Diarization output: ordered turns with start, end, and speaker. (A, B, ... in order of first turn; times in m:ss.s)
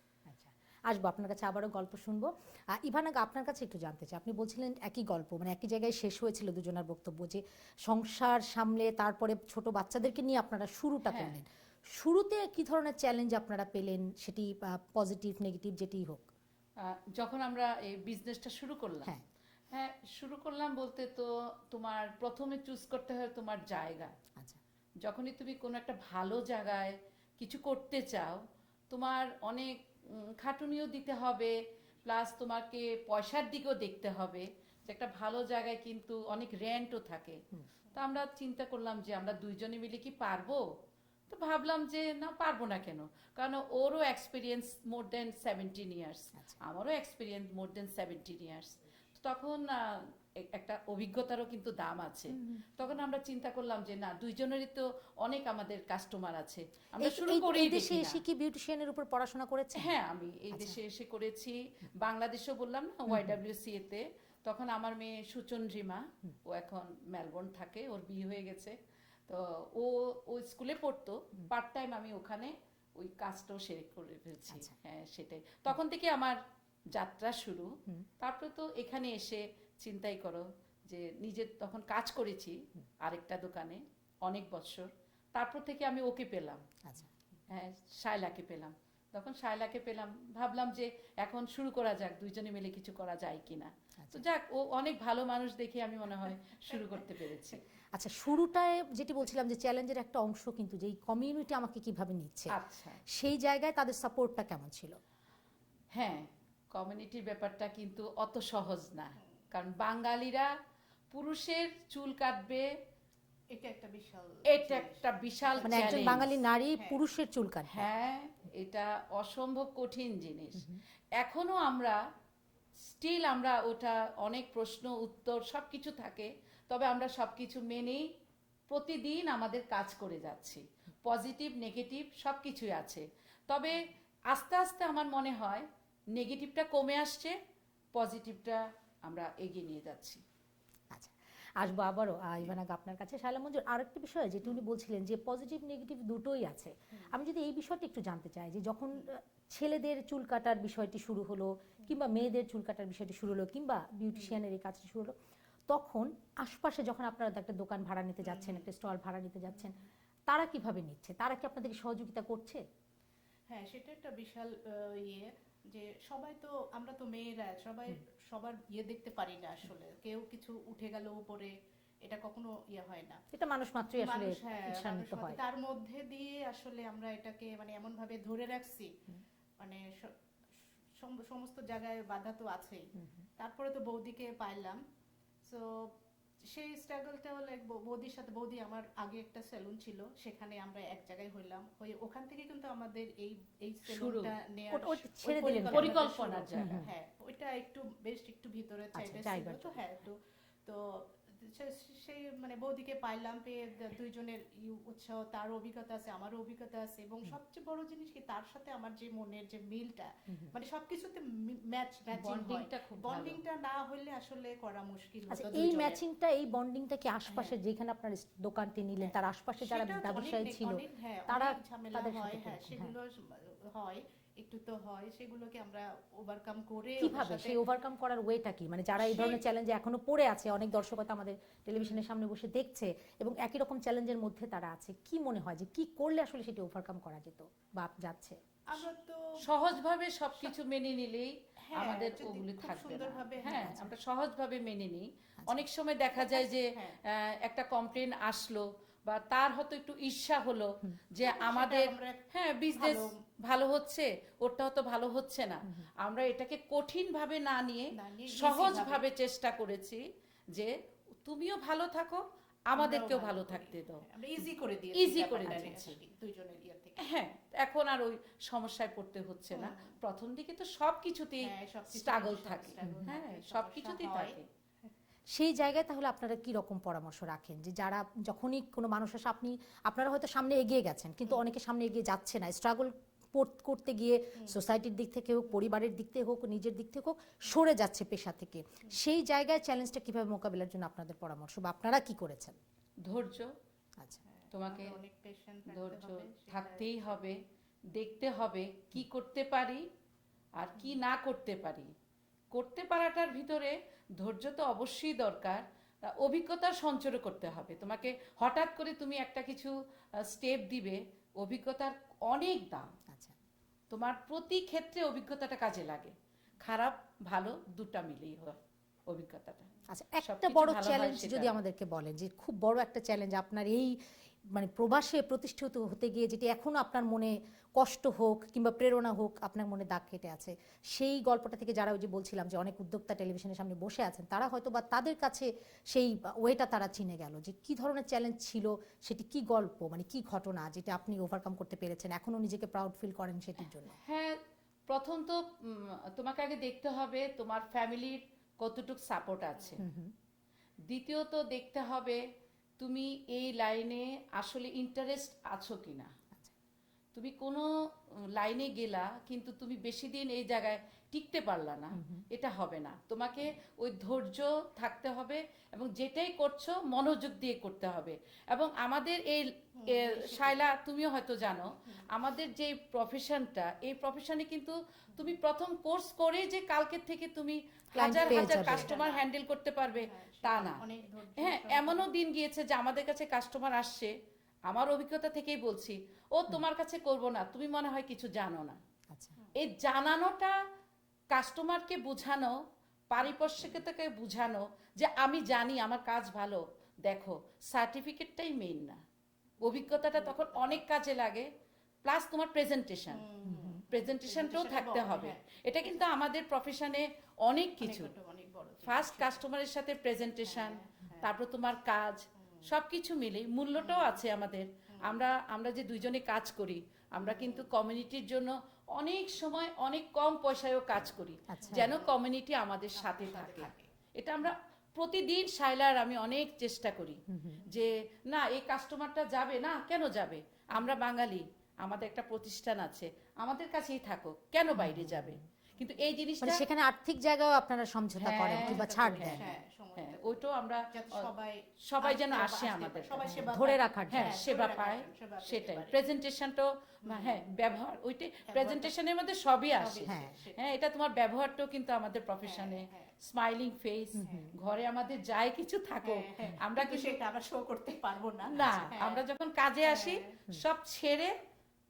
0:00.3-0:16.3 A
0:11.0-0:11.4 B
0:16.8-0:19.1 B
0:19.7-0:24.1 B
0:25.0-0:37.4 B
0:37.9-0:40.6 B
0:41.3-0:49.8 B
0:50.4-0:58.2 B
0:52.4-0:52.6 A
0:57.0-0:59.9 A
0:59.8-1:08.8 B
1:00.5-1:00.8 A
1:03.1-1:03.4 A
1:09.3-1:16.4 B
1:17.0-1:26.6 B
1:26.8-1:27.1 A
1:27.5-1:37.6 B
1:37.9-1:42.5 A
1:42.5-1:43.0 B
1:43.1-1:45.0 A
1:45.9-1:50.5 B
1:51.1-1:52.6 B
1:53.5-1:57.0 C
1:54.5-1:56.3 B
1:55.6-1:57.9 A
1:57.7-2:02.0 B
2:02.9-2:08.1 B
2:08.7-2:17.4 B
2:17.9-2:20.2 B
2:20.9-2:35.1 A
2:34.1-2:34.4 C
2:35.7-2:39.7 A
2:38.2-2:38.7 C
2:40.3-2:42.6 A
2:43.5-2:51.5 C
2:52.0-2:53.2 C
2:53.3-2:55.4 A
2:54.0-2:58.9 C
2:59.6-3:00.1 C
3:01.0-3:02.8 C
3:03.0-3:03.2 A
3:03.4-3:04.8 C
3:05.5-3:05.9 C
3:06.5-3:36.0 C
3:13.9-3:14.3 B
3:14.7-3:16.0 A
3:15.7-3:16.8 B
3:16.5-3:16.9 A
3:18.9-3:19.8 A
3:32.1-3:33.4 B
3:35.3-3:42.9 A
3:37.3-3:37.5 C
3:39.0-3:47.6 C
3:47.0-3:58.4 A
3:49.0-3:49.4 C
3:58.7-3:59.2 C
3:59.4-4:20.0 B
4:01.7-4:03.8 C
4:03.4-4:03.9 A
4:06.1-4:07.0 C
4:11.2-4:13.1 C
4:17.9-4:19.0 C
4:21.2-4:24.0 B
4:22.7-4:27.0 C
4:24.9-4:26.0 B
4:25.5-4:25.9 A
4:27.0-4:34.5 B
4:29.5-4:29.9 C
4:31.4-4:34.4 C
4:35.3-4:52.6 A
4:53.0-4:53.5 B
4:54.2-4:57.2 C
4:54.5-4:55.0 B
4:55.7-4:57.4 B
4:57.9-4:59.8 B
5:00.6-5:01.9 B
5:02.5-5:09.7 B
5:10.2-5:12.9 B
5:13.1-5:13.4 A
5:13.9-5:21.6 B
5:19.9-5:24.0 A
5:24.5-5:44.0 A
5:43.6-5:44.4 B
5:44.9-5:49.8 B
5:49.6-5:49.8 C
5:49.8-5:50.1 A
5:50.9-5:52.2 B
5:52.8-5:56.1 B
5:57.1-5:57.7 B
5:58.4-6:20.8 B
6:02.0-6:02.2 A
6:09.8-6:10.6 C
6:17.9-6:18.9 A
6:18.0-6:19.2 C
6:20.0-6:22.0 C
6:21.4-6:24.1 B
6:24.7-6:28.8 B
6:29.6-6:30.5 B
6:31.3-6:32.5 B
6:33.1-6:39.0 B
6:39.6-6:41.5 B
6:39.9-6:40.8 C
6:42.0-6:43.2 B
6:43.1-6:45.4 C
6:43.4-6:43.8 A
6:43.9-6:48.1 B
6:47.8-6:49.4 C
6:48.8-7:16.6 B
6:50.4-6:51.3 C
6:52.4-6:52.7 C
6:53.8-6:54.2 C
6:54.9-6:55.2 C
6:57.2-6:57.7 C
7:01.5-7:01.9 A
7:01.6-7:02.2 C
7:02.9-7:03.9 C
7:07.3-7:07.6 A
7:07.6-7:07.9 C
7:14.7-7:15.4 A
7:15.8-7:16.0 C
7:16.4-7:19.4 A
7:18.2-7:21.3 B
7:18.5-7:26.0 C
7:21.9-7:23.2 B
7:23.2-7:24.3 A
7:24.1-7:37.2 B
7:27.0-7:27.4 C
7:28.5-7:28.9 C
7:29.7-7:30.7 C
7:30.1-7:30.4 A
7:32.4-7:33.1 C
7:34.2-7:34.5 A
7:34.2-7:34.5 C
7:36.0-7:39.2 C
7:38.5-7:41.3 B
7:38.5-7:38.9 A
7:39.8-7:40.4 C